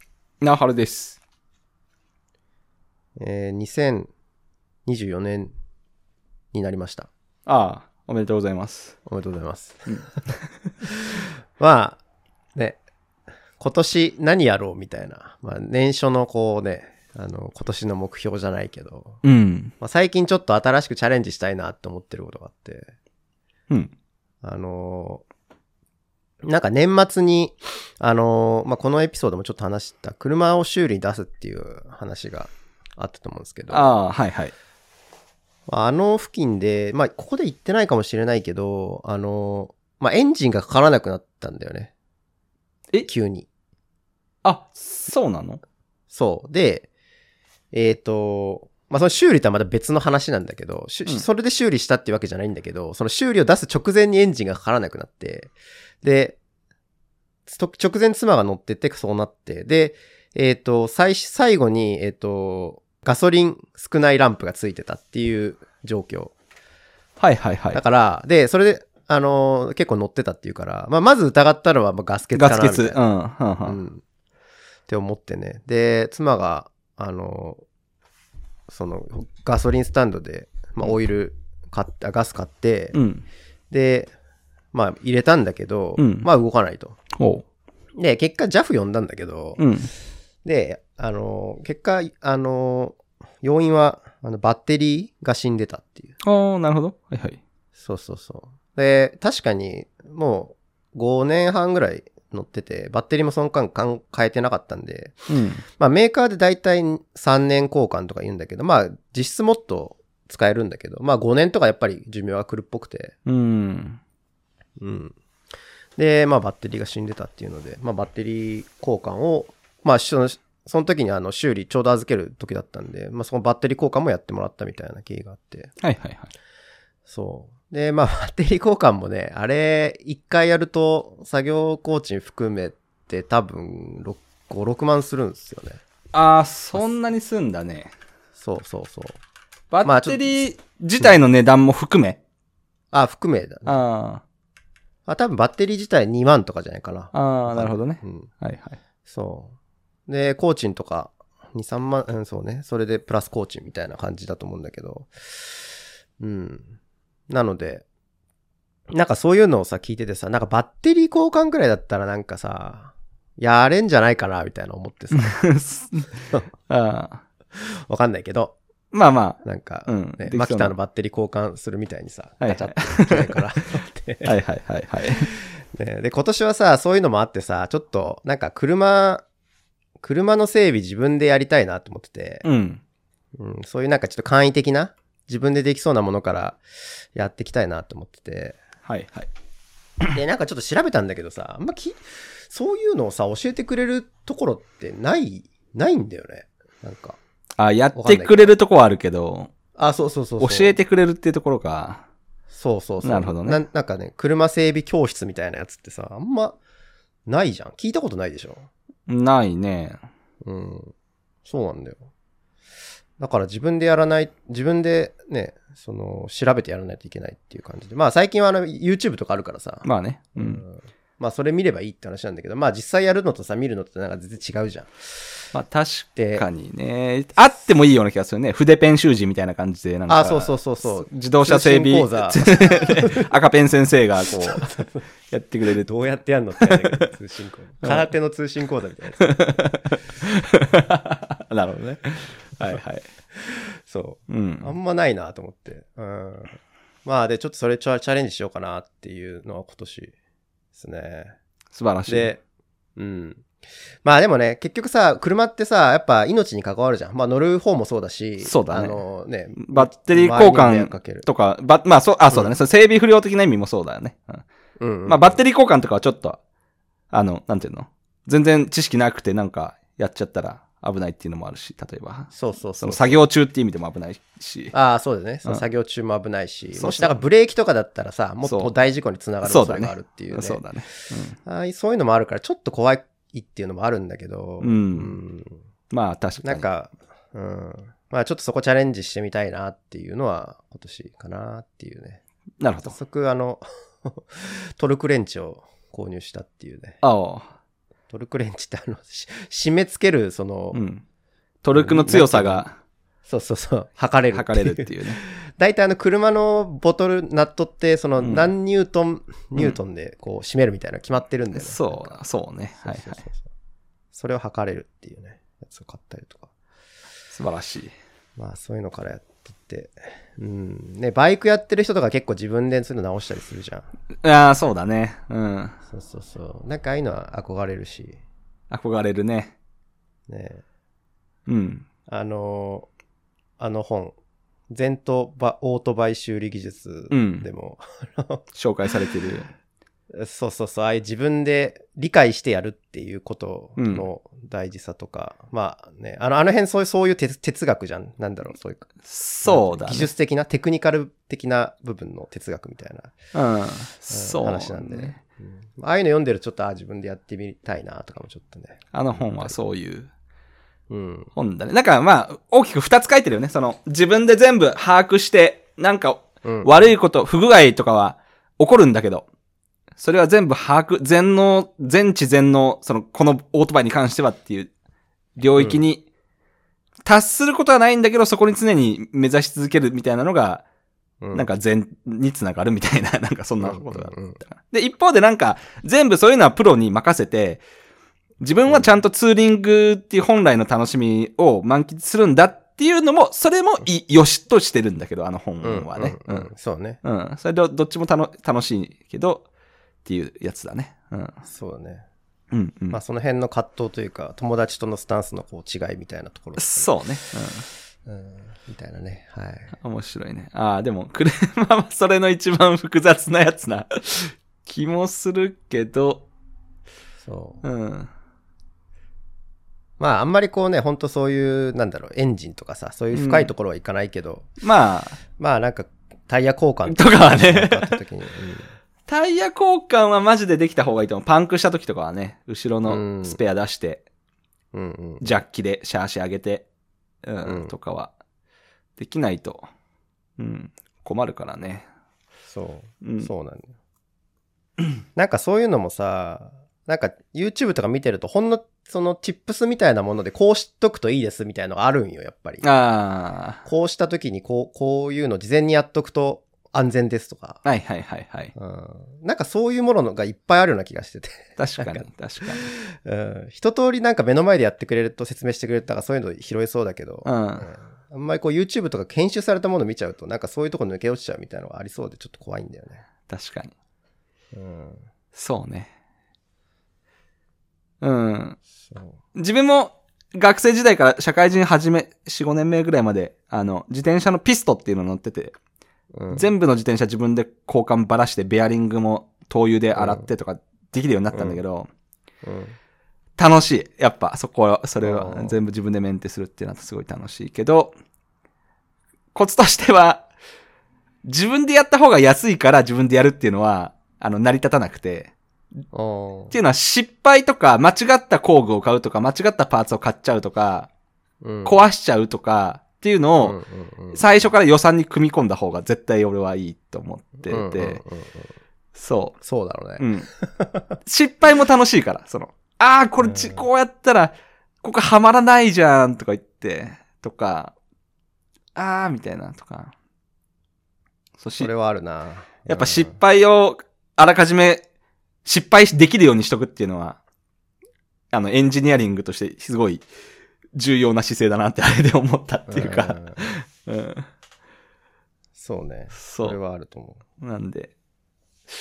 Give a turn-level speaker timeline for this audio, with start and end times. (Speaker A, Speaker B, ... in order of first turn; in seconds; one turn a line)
Speaker A: 0.4-1.2
Speaker B: 3.2-4.1
Speaker B: 4.9-5.5
Speaker B: 6.5-7.1
Speaker A: 7.5-8.9
Speaker B: 9.1-10.1
Speaker B: 10.8-12.0
Speaker B: 13.6-19.2
Speaker A: 19.2-19.7
Speaker B: 19.8-22.9
Speaker B: 24.4-25.2
Speaker B: 26.4-33.9
Speaker A: 33.7-34.5
Speaker B: 35.7-41.9
Speaker B: 43.0-43.5
Speaker A: 44.4-45.6
Speaker B: 46.1-46.9
Speaker B: 47.7-56.4
Speaker B: 57.5-66.3
Speaker A: 67.2-67.8
Speaker B: 67.7-73.0
Speaker A: 72.3-73.8
Speaker B: 73.6-74.0
Speaker B: 74.9-77.6
Speaker B: 78.7-83.0
Speaker A: 82.9-83.2
Speaker B: 83.7-84.1
Speaker B: 84.7-87.0
Speaker A: 86.0-86.3
Speaker A: 87.2-87.4
Speaker B: 88.0-89.7
Speaker A: 89.6-89.9
Speaker B: 90.4-96.1
Speaker A: 96.2-97.4
Speaker B: 97.7-105.2
Speaker A: 105.3-105.6
Speaker B: 105.7-113.2
Speaker A: 113.2-114.0
Speaker B: 114.8-115.2
Speaker B: 116.0-125.7
Speaker A: 125.8-126.3
Speaker B: 127.0-135.8
Speaker A: 136.1-137.9
Speaker B: 138.4-139.2
Speaker A: 139.7-142.2
Speaker B: 139.8-140.3
Speaker B: 142.9-143.8
Speaker A: 143.7-144.2
Speaker B: 145.1-148.3
Speaker A: 147.1-148.8
Speaker B: 149.1-149.5
Speaker B: 150.1-155.6
Speaker B: 156.2-156.7
Speaker B: 157.3-157.8
Speaker B: 158.9-165.4
Speaker A: 165.1-167.2
Speaker B: 167.5-168.5
Speaker A: 168.9-170.7
Speaker B: 169.4-174.3
Speaker A: 172.4-173.4
Speaker A: 174.2-175.3
Speaker B: 175.1-179.2
Speaker B: 180.0-182.4
Speaker A: 182.4-182.8
Speaker B: 183.4-186.6
Speaker B: 187.1-188.6
Speaker A: 188.8-189.3
Speaker B: 190.1-197.2
Speaker A: 197.6-199.5
Speaker B: 197.9-198.6
Speaker B: 199.8-200.8
Speaker A: 200.4-202.0
Speaker B: 202.5-206.6
Speaker A: 203.0-203.6
Speaker B: 207.3-208.7
Speaker A: 209.1-210.0
Speaker B: 210.4-210.9
Speaker B: 211.4-212.1
Speaker B: 213.2-225.0
Speaker A: 219.8-220.6
Speaker A: 225.5-234.7
Speaker B: 226.2-226.4
Speaker B: 230.1-233.3
Speaker B: 234.5-235.0
Speaker A: 235.3-235.9
Speaker B: 235.7-239.3
Speaker A: 236.6-237.0
Speaker A: 237.8-238.1
Speaker A: 239.2-243.1
Speaker B: 243.3-250.1
Speaker A: 244.3-244.7
Speaker B: 250.7-251.3
Speaker A: 251.7-252.3
Speaker B: 252.1-252.4
Speaker B: 252.9-261.3
Speaker A: 258.4-259.0
Speaker A: 259.6-264.4
Speaker B: 262.3-262.6
Speaker B: 264.8-265.4
Speaker A: 265.1-266.4
Speaker A: 267.1-274.7
Speaker B: 272.3-273.2
Speaker B: 274.7-280.6
Speaker A: 276.8-277.2
Speaker A: 278.4-278.7
Speaker A: 279.4-281.4
Speaker B: 281.4-285.6
Speaker A: 284.6-285.2
Speaker A: 285.9-286.6
Speaker B: 286.4-292.2
Speaker A: 292.6-292.9
Speaker B: 292.8-297.0
Speaker A: 297.0-297.5
Speaker B: 298.1-300.8
Speaker A: 300.7-301.0
Speaker A: 301.6-302.7
Speaker B: 301.7-302.7
Speaker B: 303.2-312.2
Speaker A: 304.3-305.2
Speaker A: 308.2-308.5
Speaker A: 311.5-313.2
Speaker B: 312.8-313.4
Speaker B: 314.1-316.5
Speaker A: 317.3-317.9
Speaker B: 318.4-323.9
Speaker A: 324.2-325.8
Speaker B: 325.9-328.2
Speaker A: 328.7-329.5
Speaker B: 330.3-330.6
Speaker A: 331.5-331.8
Speaker B: 332.1-332.9
Speaker B: 333.6-334.1
Speaker B: 334.7-338.4
Speaker A: 337.1-337.4
Speaker A: 338.5-339.5
Speaker B: 340.1-348.9
Speaker A: 343.8-344.1
Speaker A: 349.0-350.1
Speaker B: 349.4-353.2
Speaker A: 353.3-355.2
Speaker B: 354.1-359.6
Speaker A: 358.9-360.1
Speaker B: 360.9-361.3
Speaker A: 361.4-369.2
Speaker B: 366.4-366.9
Speaker A: 370.0-374.7
Speaker A: 375.4-376.0
Speaker B: 375.6-375.8
Speaker A: 377.0-380.6
Speaker B: 381.2-381.5
Speaker A: 381.3-387.6
Speaker B: 383.6-384.4
Speaker A: 388.4-396.5
Speaker B: 388.7-388.9
Speaker B: 395.6-397.0
Speaker A: 397.0-399.5
Speaker A: 400.1-401.4
Speaker B: 401.4-402.1
Speaker A: 402.5-403.0
Speaker B: 402.9-407.0
Speaker A: 406.6-407.7
Speaker B: 408.0-409.7
Speaker A: 409.8-416.3
Speaker B: 417.2-417.6
Speaker A: 417.6-418.1
Speaker B: 420.0-424.5
Speaker A: 423.1-423.5
Speaker A: 424.6-425.2
Speaker B: 425.4-428.7
Speaker A: 426.9-427.9
Speaker A: 429.1-434.0
Speaker B: 432.9-433.4
Speaker B: 434.7-435.4
Speaker A: 435.2-436.6
Speaker A: 437.2-438.1
Speaker B: 437.4-437.7
Speaker A: 439.0-439.7
Speaker A: 440.4-441.9
Speaker B: 442.5-443.7
Speaker A: 443.0-443.3
Speaker B: 445.1-452.6
Speaker A: 452.6-453.6
Speaker B: 453.6-457.6
Speaker A: 457.6-458.5
Speaker B: 458.5-473.0
Speaker A: 461.6-462.6
Speaker A: 467.2-467.7
Speaker A: 473.3-473.7
Speaker B: 474.5-475.0
Speaker A: 475.3-475.9
Speaker A: 478.0-478.6
Speaker B: 478.8-479.1
Speaker A: 479.3-485.6
Speaker B: 486.1-486.5
Speaker A: 486.3-491.9
Speaker B: 489.9-490.3
Speaker B: 491.3-491.6
Speaker B: 492.4-492.8
Speaker A: 493.4-497.9
Speaker B: 495.0-495.6
Speaker A: 499.3-500.3
Speaker A: 501.2-505.3
Speaker B: 505.9-506.6
Speaker A: 506.5-510.9
Speaker B: 511.4-511.8
Speaker A: 511.6-513.6
Speaker B: 513.4-514.5
Speaker A: 514.1-518.0
Speaker B: 517.5-518.5
Speaker A: 518.9-519.4
Speaker B: 519.4-520.9
Speaker A: 520.0-520.3
Speaker A: 521.0-527.7
Speaker B: 523.2-523.6
Speaker A: 528.7-529.9
Speaker A: 531.4-531.7
Speaker B: 531.6-533.2
Speaker A: 532.7-534.8
Speaker A: 535.4-537.2
Speaker A: 538.3-540.0
Speaker A: 540.7-544.3
Speaker B: 542.7-543.5
Speaker B: 545.5-547.2
Speaker A: 546.1-546.6
Speaker A: 547.4-547.9